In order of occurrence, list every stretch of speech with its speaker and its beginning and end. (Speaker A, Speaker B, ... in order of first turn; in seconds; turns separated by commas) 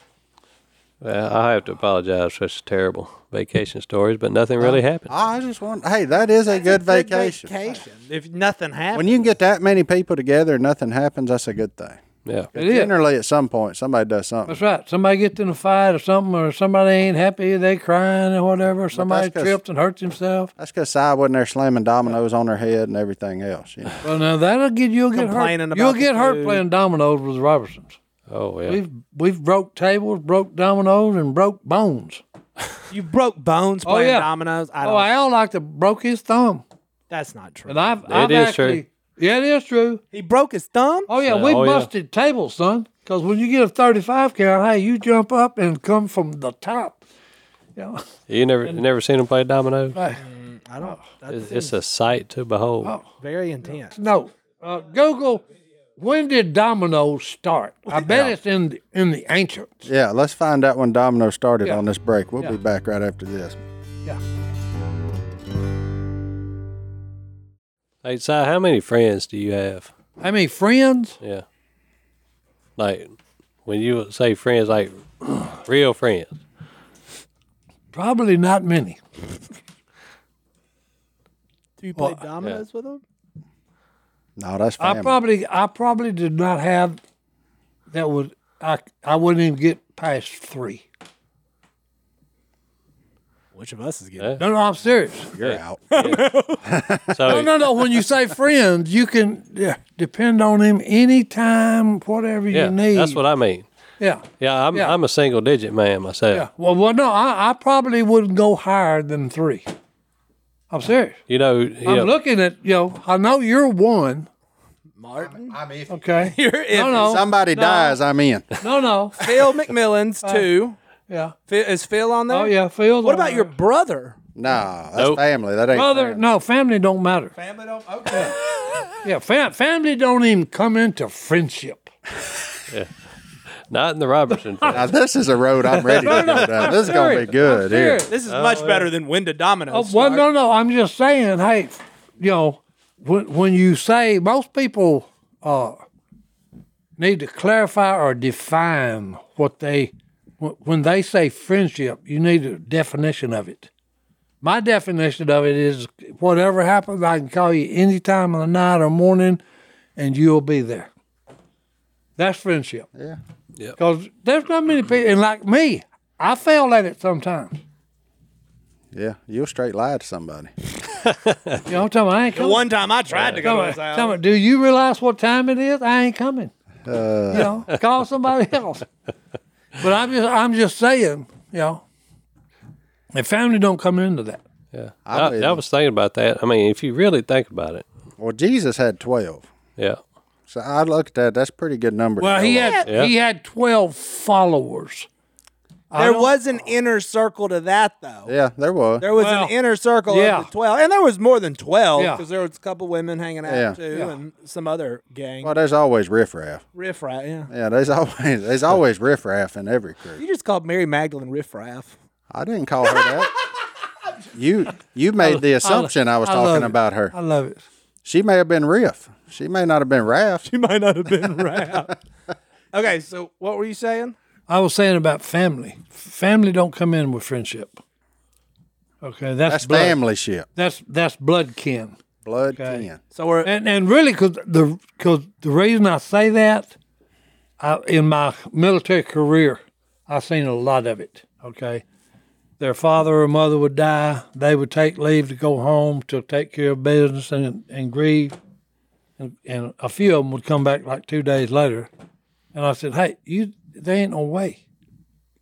Speaker A: 1.0-5.1, Speaker B: 5.1-7.5, Speaker C: 6.5-9.2, Speaker B: 8.9-12.0, Speaker B: 12.5-14.6, Speaker D: 12.6-12.9, Speaker D: 14.5-20.5, Speaker B: 18.9-19.6, Speaker B: 20.6-24.0, Speaker D: 24.0-28.0, Speaker C: 25.1-26.6, Speaker A: 28.3-28.8, Speaker D: 28.7-32.2, Speaker C: 32.9-35.1, Speaker D: 33.8-34.3, Speaker D: 34.8-36.6, Speaker C: 37.1-38.0, Speaker D: 37.7-40.0, Speaker A: 38.1-38.8, Speaker C: 40.1-41.1, Speaker D: 41.1-47.0, Speaker A: 41.2-41.9, Speaker D: 47.8-48.0, Speaker A: 48.3-50.0, Speaker D: 49.9-50.2, Speaker C: 50.2-51.8, Speaker A: 51.3-53.0, Speaker C: 53.2-54.0, Speaker D: 53.9-55.4, Speaker D: 56.0-59.9, Speaker B: 58.0-58.3, Speaker B: 59.9-63.6, Speaker A: 68.0-69.9, Speaker D: 70.2-71.2, Speaker A: 72.8-73.1, Speaker A: 73.7-76.4, Speaker D: 77.9-79.0, Speaker C: 81.8-83.0, Speaker B: 84.4-85.2, Speaker D: 84.8-87.0, Speaker D: 87.9-90.8, Speaker C: 93.5-94.4, Speaker D: 94.4-95.3, Speaker B: 95.3-96.1, Speaker A: 95.4-96.2, Speaker C: 95.9-96.6, Speaker B: 96.6-97.2, Speaker A: 97.1-97.5, Speaker D: 97.3-103.2, Speaker A: 102.5-103.7, Speaker D: 104.0-105.0, Speaker A: 104.4-106.5, Speaker D: 106.3-109.7, Speaker D: 110.7-111.2, Speaker A: 111.3-112.1, Speaker D: 111.8-114.3, Speaker C: 115.0-115.6, Speaker B: 115.2-116.0, Speaker D: 115.9-117.2, Speaker C: 116.2-118.0, Speaker B: 116.9-118.5, Speaker D: 118.6-119.2, Speaker C: 119.2-120.8, Speaker D: 120.2-120.5, Speaker D: 121.1-121.3, Speaker C: 121.5-124.2, Speaker D: 122.3-123.5, Speaker B: 124.3-126.2, Speaker D: 125.7-127.3, Speaker C: 127.4-128.3, Speaker D: 128.1-128.3, Speaker D: 129.0-131.9, Speaker A: 133.7-134.9, Speaker D: 134.3-134.7, Speaker B: 134.7-138.0, Speaker D: 135.7-138.1, Speaker C: 136.0-137.2, Speaker C: 138.1-140.2, Speaker A: 138.3-138.9, Speaker D: 139.7-145.8, Speaker D: 147.0-153.7, Speaker D: 154.4-159.4, Speaker D: 160.0-160.9, Speaker D: 162.2-162.9, Speaker D: 163.8-167.6, Speaker B: 168.9-170.5, Speaker A: 171.1-171.6, Speaker D: 171.7-172.6, Speaker C: 172.3-174.2, Speaker A: 173.1-173.4, Speaker D: 173.4-176.5, Speaker B: 176.8-177.5, Speaker D: 177.3-178.9, Speaker D: 179.8-181.8, Speaker D: 183.1-184.4, Speaker A: 184.7-187.8, Speaker B: 185.1-185.6, Speaker B: 188.2-189.5, Speaker B: 190.5-192.8, Speaker D: 192.2-195.1, Speaker A: 192.9-193.1, Speaker D: 195.9-196.3, Speaker C: 195.9-198.3, Speaker B: 198.2-199.1, Speaker C: 199.0-205.5, Speaker D: 199.2-199.5, Speaker D: 200.1-200.5, Speaker D: 201.9-202.2, Speaker B: 203.4-203.8, Speaker D: 203.9-204.2, Speaker B: 205.4-206.6, Speaker C: 206.7-207.5, Speaker B: 207.5-210.2, Speaker C: 210.2-211.9, Speaker B: 212.3-213.3, Speaker B: 214.3-217.1, Speaker D: 215.2-217.6, Speaker B: 218.0-220.5, Speaker C: 220.5-221.9, Speaker C: 222.7-224.2, Speaker D: 224.5-227.8, Speaker D: 229.0-230.0, Speaker B: 229.5-230.4, Speaker D: 230.6-231.9, Speaker B: 232.2-233.0, Speaker D: 232.5-232.8, Speaker C: 233.1-233.5, Speaker D: 233.4-236.7, Speaker D: 237.6-241.8, Speaker D: 242.6-248.3, Speaker D: 249.2-251.9, Speaker D: 252.5-254.6